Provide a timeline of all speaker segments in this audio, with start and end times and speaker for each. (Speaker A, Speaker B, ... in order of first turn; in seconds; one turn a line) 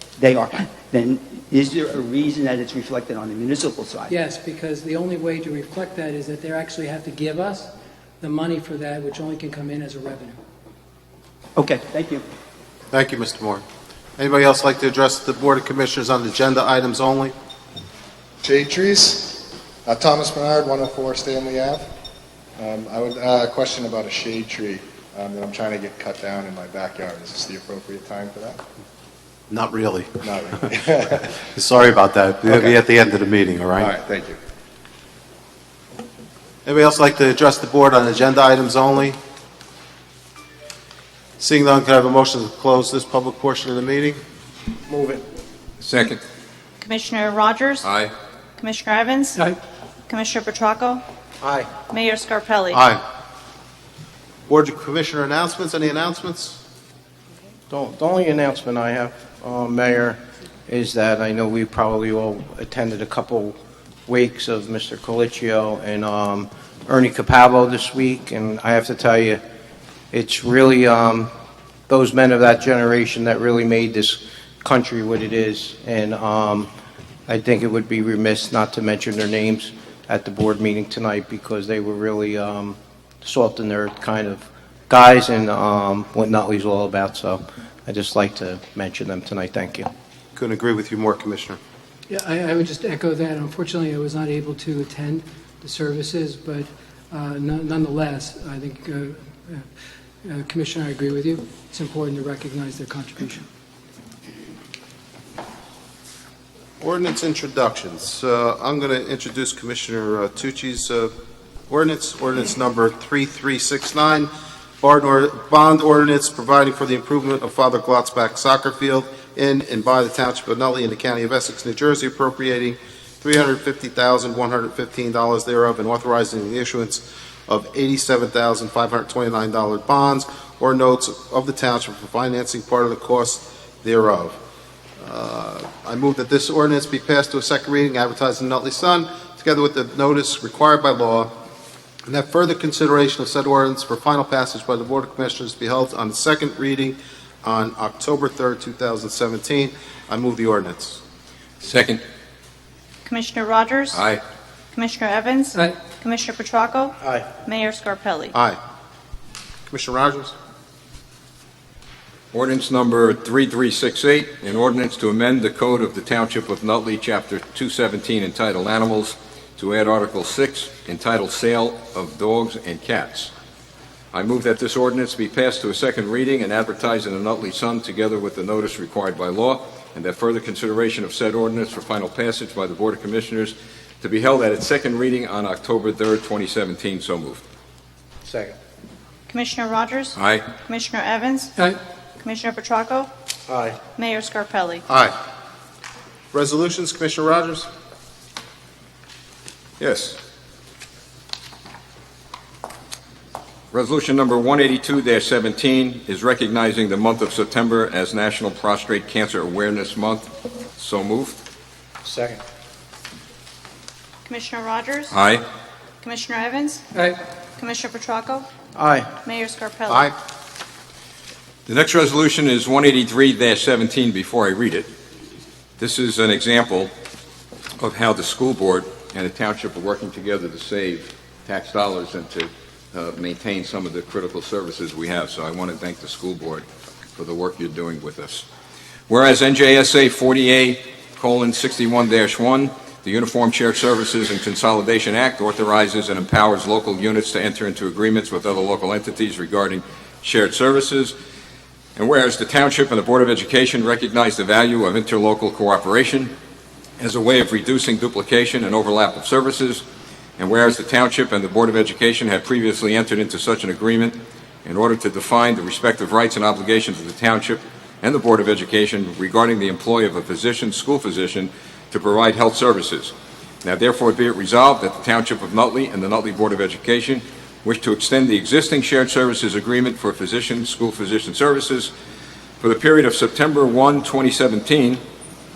Speaker A: 0.2-4.1
Speaker B: 4.1-10.4
Speaker A: 11.6-12.2
Speaker C: 12.9-13.6
Speaker C: 14.2-17.4
Speaker D: 18.4-21.9
Speaker D: 22.6-28.6
Speaker C: 29.5-30.1
Speaker D: 30.2-31.4
Speaker C: 31.4-33.9
Speaker D: 33.8-34.4
Speaker C: 36.6-39.2
Speaker C: 41.4-44.2
Speaker E: 45.8-46.2
Speaker F: 46.8-47.9
Speaker E: 47.8-48.1
Speaker F: 48.6-49.4
Speaker F: 50.1-51.0
Speaker F: 51.9-52.8
Speaker C: 52.7-53.0
Speaker C: 54.5-56.6
Speaker G: 57.7-63.6
Speaker G: 64.1-69.4
Speaker G: 70.1-71.3
Speaker G: 71.9-76.7
Speaker G: 77.3-89.9
Speaker C: 90.3-91.6
Speaker B: 92.1-99.7
Speaker B: 100.2-103.5
Speaker C: 106.8-111.1
Speaker C: 111.7-134.4
Speaker C: 135.0-141.3
Speaker C: 142.1-151.0
Speaker E: 151.6-152.0
Speaker F: 153.1-154.0
Speaker E: 153.9-154.2
Speaker F: 154.7-158.3
Speaker C: 158.3-158.6
Speaker C: 159.7-160.3
Speaker E: 162.3-173.3
Speaker E: 174.1-187.4
Speaker F: 189.3-191.5
Speaker E: 190.2-190.5
Speaker F: 192.2-193.1
Speaker F: 194.0-194.8
Speaker C: 194.9-195.2
Speaker C: 196.3-197.7
Speaker E: 199.8-200.2
Speaker E: 203.7-211.4
Speaker F: 214.3-215.2
Speaker E: 215.1-215.4
Speaker F: 216.0-216.8
Speaker B: 216.9-217.2
Speaker F: 217.6-218.4
Speaker G: 218.8-219.1
Speaker F: 219.2-220.1
Speaker E: 221.7-224.9
Speaker E: 225.8-226.9
Speaker E: 227.8-238.4
Speaker E: 239.1-251.1
Speaker E: 252.0-256.3
Speaker E: 257.0-259.9
Speaker E: 260.4-273.1
Speaker E: 273.6-281.9
Speaker E: 282.6-285.0